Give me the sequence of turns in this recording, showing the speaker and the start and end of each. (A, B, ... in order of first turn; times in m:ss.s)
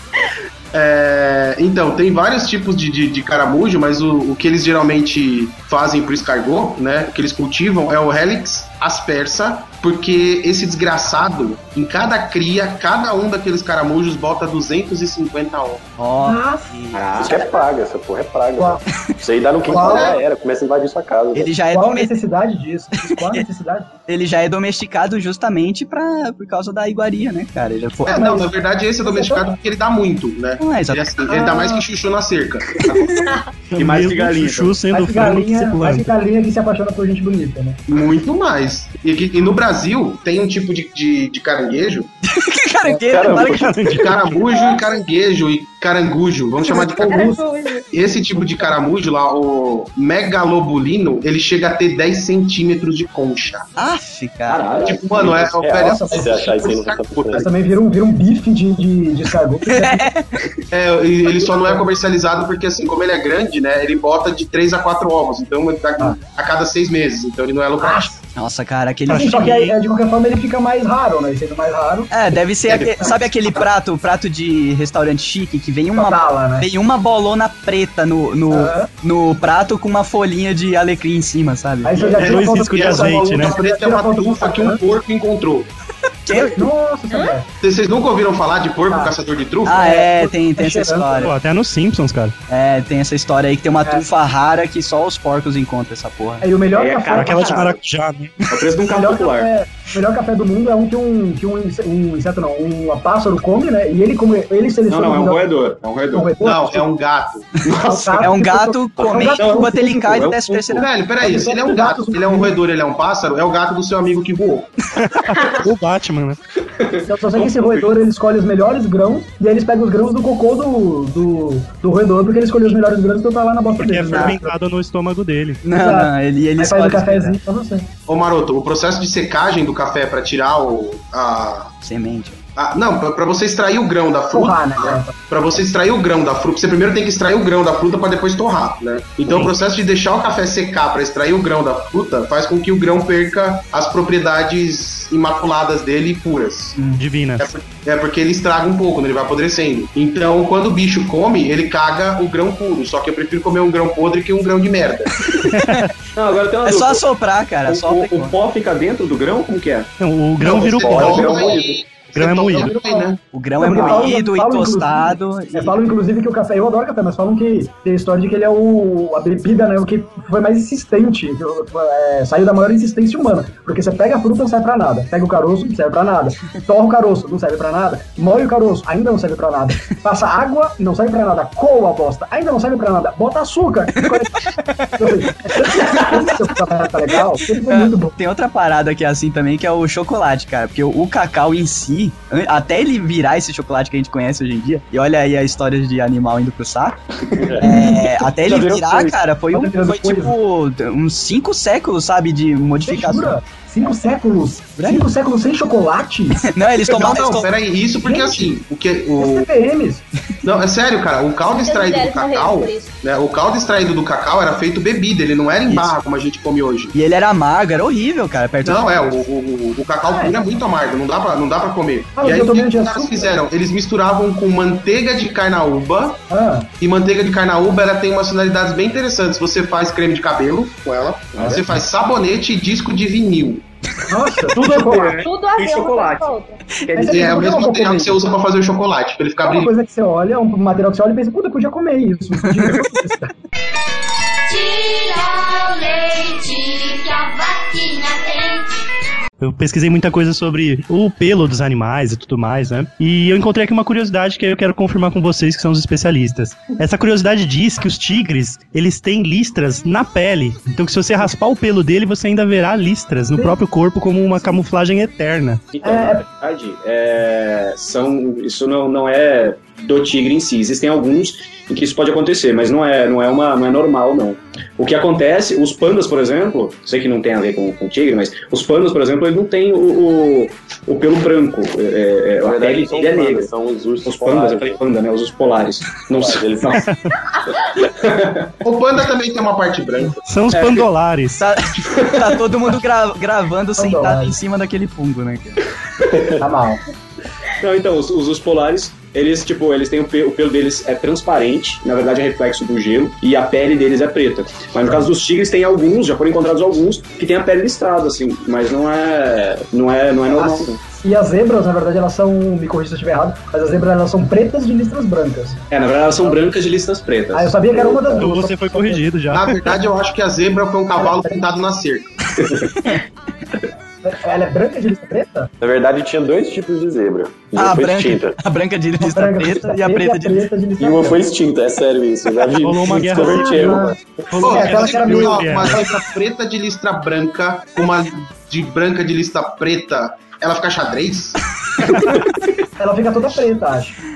0:00.7-0:15.8 A
0:16.0-0:17.3 B
0:16.2-0:16.7 C
0:16.9-0:17.4 D
0:17.1-0:21.5 E
0:18.6-0:18.8 C
0:19.7-0:20.2 C
0:19.7-0:20.2 A
0:21.3-0:22.1 B
0:21.6-0:23.9 C
0:23.1-0:23.4 B
0:24.1-0:28.3 B
0:28.1-0:28.5 C
0:28.1-0:32.8 A
0:29.0-0:29.6 C
0:30.6-0:31.2 B
0:31.3-0:31.8 C
0:33.7-0:36.1 F
0:33.8-0:34.8 D
0:34.9-0:37.8 C
0:37.9-0:42.1 A
0:42.3-0:43.8 B
0:43.1-0:43.8 E
0:43.5-0:44.4 F
0:43.8-0:47.4 A
0:44.5-0:45.0 G
0:46.6-0:47.4 C
0:46.7-0:47.9 G
0:47.9-0:53.7 A
0:48.4-0:48.7 C
0:53.8-0:54.7 B
0:54.5-0:55.4 D
0:54.8-0:57.4 E
0:54.8-0:57.4 A
0:55.8-0:56.5 C
0:57.3-1:00.1 C
0:59.7-1:00.5 B
1:00.7-1:08.1 A
1:01.5-1:01.8 C
1:07.8-1:08.1 C
1:08.4-1:09.5 B
1:09.1-1:09.8 F
1:09.1-1:12.1 C
1:12.1-1:22.2 B
1:12.7-1:13.6 C
1:15.9-1:16.7 C
1:18.5-1:18.9 C
1:21.8-1:24.8 C
1:22.0-1:25.7 A
1:22.2-1:23.5 F
1:26.2-1:26.7 B
1:26.3-1:27.5 C
1:27.6-1:29.9 A
1:28.9-1:29.1 C
1:29.6-1:31.3 B
1:29.8-1:31.3 C
1:31.2-1:32.3 F
1:32.5-1:36.5 B
1:36.4-1:37.7 C
1:36.7-1:37.8 D
1:37.1-1:38.4 F
1:38.5-1:39.5 D
1:38.8-1:45.5 C
1:44.9-1:46.3 D
1:46.1-1:46.9 C
1:46.4-1:47.6 A
1:47.6-1:48.4 D
1:47.6-1:50.0 C
1:48.2-1:50.8 B
1:49.0-1:50.6 D
1:50.7-1:54.7 A
1:51.2-1:52.6 C
1:54.9-1:56.4 F
1:56.8-1:57.9 D
1:57.0-2:04.6 C
2:03.8-2:05.6 F
2:05.6-2:07.4 B
2:05.7-2:07.9 C
2:08.1-2:11.7 A
2:11.8-2:12.4 B
2:12.6-2:35.1 A
2:14.3-2:15.2 C
2:19.2-2:19.5 F
2:27.0-2:27.5 F
2:35.5-2:35.8 B
2:35.5-2:35.9 F
2:36.2-2:37.0 D
2:36.6-2:38.3 B
2:37.6-2:39.9 D
2:40.0-2:41.4 F
2:40.4-2:41.8 E
2:40.5-2:43.2 A
2:41.1-2:41.6 C
2:42.1-2:42.7 F
2:42.5-2:43.1 C
2:43.3-2:45.8 B
2:43.6-3:08.1 C
3:04.8-3:05.1 B
3:05.6-3:06.3 B
3:07.6-3:17.0 B
3:17.4-3:17.8 E
3:17.6-3:23.4 B
3:17.6-3:18.0 C
3:18.4-3:19.2 E
3:19.5-3:20.3 C
3:22.8-3:26.4 C
3:24.8-3:25.1 B
3:26.4-3:27.5 B
3:26.9-3:29.5 A
3:28.0-3:28.5 C
3:29.2-3:30.0 C
3:30.4-3:36.9 A
3:31.4-3:32.9 G
3:36.9-3:39.1 B
3:38.6-3:46.2 A
3:40.1-3:40.4 C
3:42.2-3:43.4 C
3:46.3-3:46.7 C
3:46.8-3:53.6 A
3:51.3-3:51.6 D
3:54.1-3:55.2 C
3:54.5-3:56.3 D
3:55.2-3:56.6 G
3:56.8-3:57.2 D
3:56.9-3:58.2 C
3:57.1-3:59.7 A
3:59.4-4:03.3 C
4:04.4-4:08.8 H
4:09.4-4:25.7 F
4:25.7-4:43.5 D
4:25.8-4:26.2 C
4:42.4-4:44.8 E
4:44.0-4:46.8 D
4:46.1-4:46.8 E
4:46.8-4:47.2 F
4:47.8-4:48.5 D
4:48.6-4:50.2 A
4:50.2-4:51.4 F
4:50.5-4:50.8 D
4:51.4-4:55.6 B
4:52.0-4:52.4 D
4:53.8-4:54.3 C
4:56.4-4:56.8 C
4:57.6-5:10.8 D
5:10.3-5:15.6 C
5:15.7-5:17.6 D
5:17.3-5:19.0 C
5:17.7-5:18.3 E
5:18.2-5:19.7 F
5:19.3-5:22.1 A
5:21.0-5:21.4 C
5:24.0-5:25.5 C
5:25.6-5:28.4 E
5:27.5-5:30.5 B
5:29.0-5:31.3 C
5:30.8-5:34.0 E
5:32.6-5:33.8 F
5:33.1-5:35.9 C
5:34.3-5:35.8 F
5:34.4-5:41.4 A
5:41.8-5:42.3 F
5:42.8-5:44.0 C